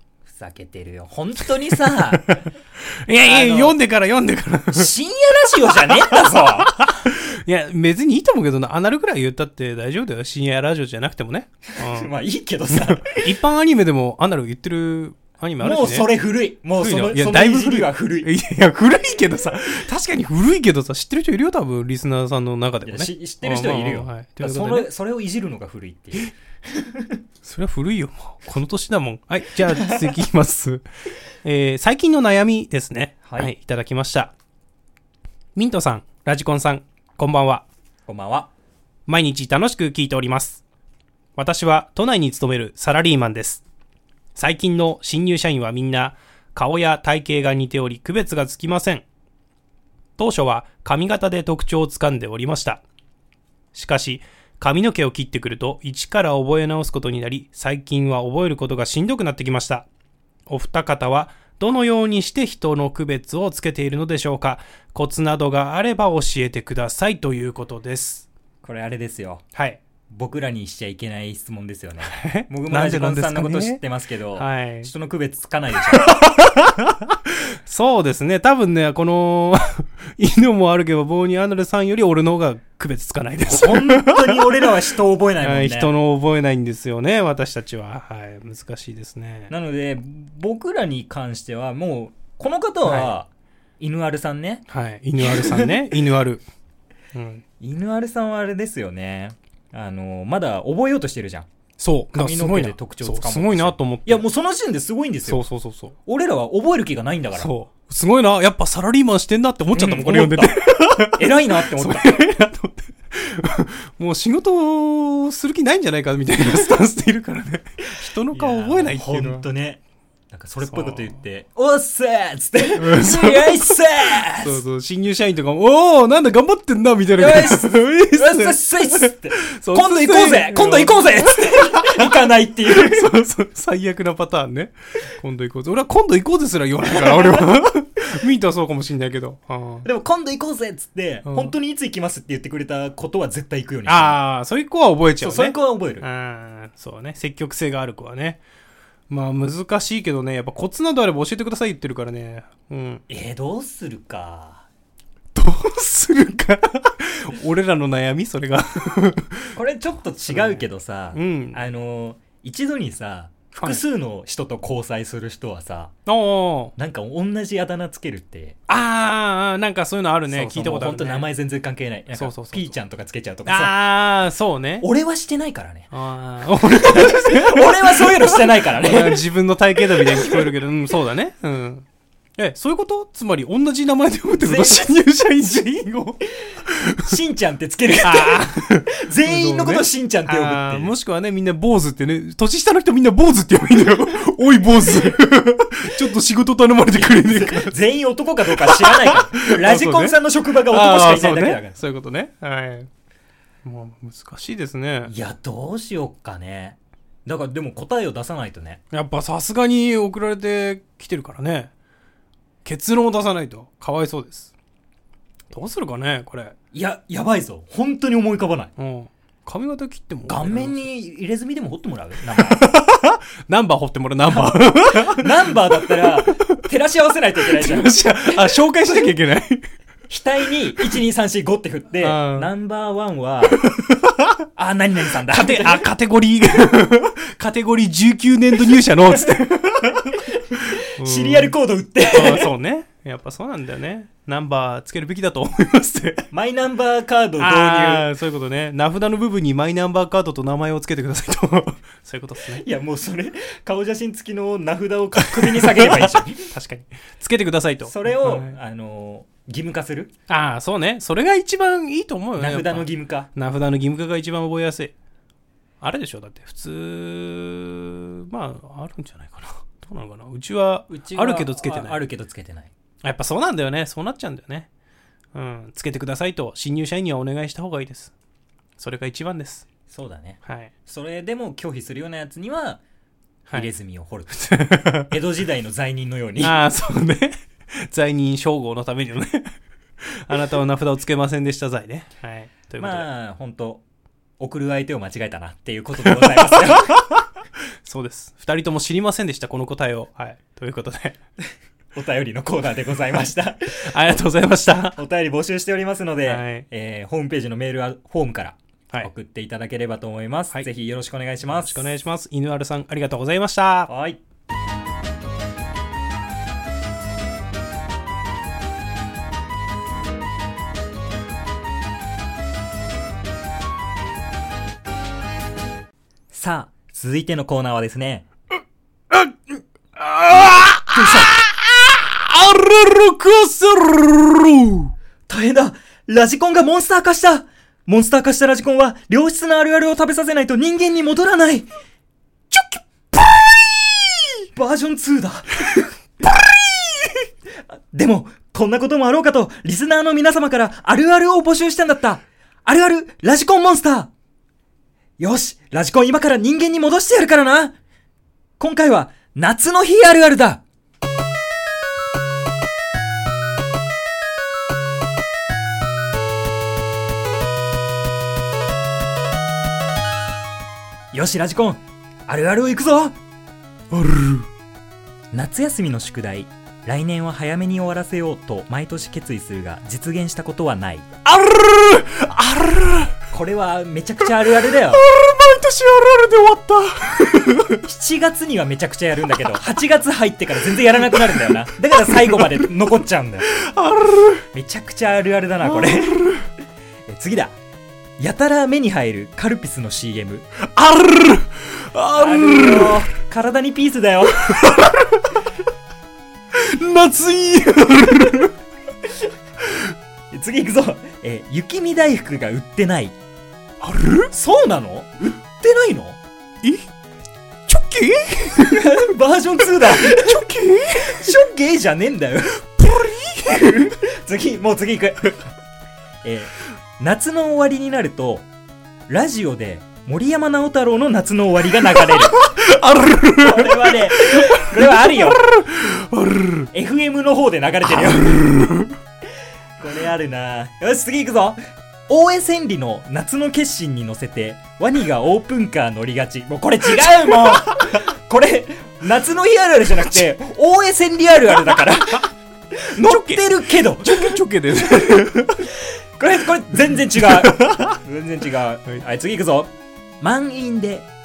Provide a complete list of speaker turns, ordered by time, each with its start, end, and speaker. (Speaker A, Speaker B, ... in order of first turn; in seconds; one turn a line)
Speaker A: 0.3-2.5
Speaker B: 1.7-4.9
Speaker A: 3.2-3.8
Speaker A: 4.7-6.8
Speaker B: 5.5-12.1
Speaker A: 11.8-13.3
Speaker B: 12.7-16.1
Speaker A: 15.6-18.3
Speaker B: 16.8-24.9
Speaker A: 22.8-27.2
Speaker B: 27.4-30.9
Speaker A: 29.8-30.0
Speaker B: 31.4-34.3
Speaker A: 33.2-33.5
Speaker B: 35.5-37.6
Speaker A: 38.1-38.5
Speaker B: 39.1-40.6
Speaker B: 41.4-43.6
Speaker B: 44.4-49.0
Speaker B: 50.2-52.8
Speaker B: 53.7-59.9
Speaker B: 60.5-68.3
Speaker A: 68.6-69.5
Speaker B: 69.5-69.8
Speaker A: 70.1-76.2
Speaker B: 72.1-73.8
Speaker B: 74.4-74.9
Speaker B: 75.9-89.5
Speaker A: 83.5-85.9
Speaker A: 89.5-93.3
Speaker B: 92.8-93.1
Speaker A: 93.8-94.7
Speaker B: 94.7-96.5
Speaker A: 95.2-95.9
Speaker B: 97.1-97.4
Speaker A: 97.6-101.5
Speaker B: 101.8-104.2
Speaker A: 102.1-105.4
Speaker B: 105.3-106.0
Speaker A: 106.1-107.5
Speaker B: 107.4-119.5
Speaker A: 109.7-112.2
Speaker A: 118.3-124.6
Speaker B: 120.7-121.2
Speaker B: 122.8-139.9
Speaker A: 127.2-133.2
Speaker A: 139.8-144.2
Speaker B: 141.2-141.5
Speaker B: 143.9-148.4
Speaker A: 145.2-146.1
Speaker B: 149.1-153.0
Speaker A: 153.1-154.7
Speaker B: 155.3-159.6
Speaker A: 159.5-165.9
Speaker B: 160.3-161.6
Speaker B: 163.6-163.8
Speaker B: 166.1-166.8
Speaker A: 166.8-168.6
Speaker B: 168.7-171.3
Speaker A: 170.3-173.8
Speaker B: 172.1-172.8
Speaker B: 173.5-174.9
Speaker A: 174.8-175.9
Speaker B: 175.9-181.8
Speaker A: 176.7-179.3
Speaker A: 179.9-180.5
Speaker B: 182.4-187.2
Speaker A: 184.4-184.9
Speaker A: 186.5-190.9
Speaker B: 188.0-197.8
Speaker A: 196.9-201.8
Speaker B: 198.5-202.9
Speaker B: 203.6-205.1
Speaker A: 205.0-208.8
Speaker B: 208.9-211.7
Speaker B: 212.6-214.5
Speaker B: 215.5-216.6
Speaker A: 216.7-218.7
Speaker B: 218.8-220.9
Speaker A: 220.3-222.7
Speaker B: 222.3-226.6
Speaker A: 224.3-228.6
Speaker B: 227.4-229.7
Speaker A: 230.1-233.7
Speaker B: 232.0-232.5
Speaker B: 233.5-234.4
Speaker A: 234.6-235.9
Speaker B: 235.1-246.3
Speaker A: 240.4-242.5
Speaker A: 246.3-248.1
Speaker B: 247.4-252.6
Speaker A: 252.5-256.5
Speaker B: 255.2-258.6
Speaker A: 257.9-260.1
Speaker B: 260.3-264.9
Speaker A: 262.4-263.3
Speaker B: 265.8-272.0
Speaker A: 270.9-272.7
Speaker B: 273.0-274.7
Speaker B: 275.3-278.1
Speaker B: 278.8-279.7
Speaker A: 279.9-282.8
Speaker B: 280.4-280.7
Speaker A: 283.5-284.5
Speaker B: 284.3-285.1
Speaker A: 285.0-286.6
Speaker B: 286.4-293.1
Speaker A: 292.8-293.8
Speaker A: 294.4-297.0
Speaker B: 296.0-297.2
Speaker B: 297.8-301.2
Speaker A: 301.9-304.2
Speaker B: 303.8-305.0
Speaker A: 304.9-311.9
Speaker B: 306.3-306.7
Speaker B: 311.5-313.9
Speaker A: 313.9-314.2
Speaker A: 326.3-328.3
Speaker B: 329.1-329.4
Speaker B: 329.9-334.9
Speaker A: 330.9-331.4
Speaker A: 335.3-341.7
Speaker B: 342.5-344.5
Speaker A: 344.5-345.7
Speaker B: 345.7-347.2
Speaker A: 347.7-354.1
Speaker A: 355.2-357.8
Speaker A: 358.6-360.6
Speaker A: 371.1-373.2
Speaker B: 373.9-374.5
Speaker A: 375.3-381.1
Speaker B: 381.2-383.2
Speaker A: 383.3-385.0
Speaker B: 384.2-387.9
Speaker A: 387.8-393.5
Speaker B: 391.0-392.7
Speaker B: 393.4-394.5
Speaker A: 394.5-396.4
Speaker B: 395.6-396.5
Speaker A: 397.1-397.6
Speaker A: 398.2-400.5
Speaker B: 400.6-403.1
Speaker A: 402.1-404.7
Speaker B: 404.4-405.4
Speaker B: 406.5-408.5
Speaker A: 410.3-413.2
Speaker B: 413.8-414.3
Speaker A: 414.3-416.2
Speaker B: 416.6-416.9
Speaker B: 417.7-419.1
Speaker A: 418.7-422.7
Speaker B: 419.8-421.4
Speaker B: 422.8-424.0
Speaker A: 423.4-425.4
Speaker A: 426.2-428.5
Speaker A: 429.1-432.4
Speaker B: 431.9-436.7
Speaker A: 433.4-435.4
Speaker A: 436.7-438.5
Speaker B: 437.8-439.0
Speaker A: 439.8-454.4
Speaker B: 446.9-448.0
Speaker B: 452.9-455.7
Speaker A: 455.8-461.1
Speaker B: 456.9-458.0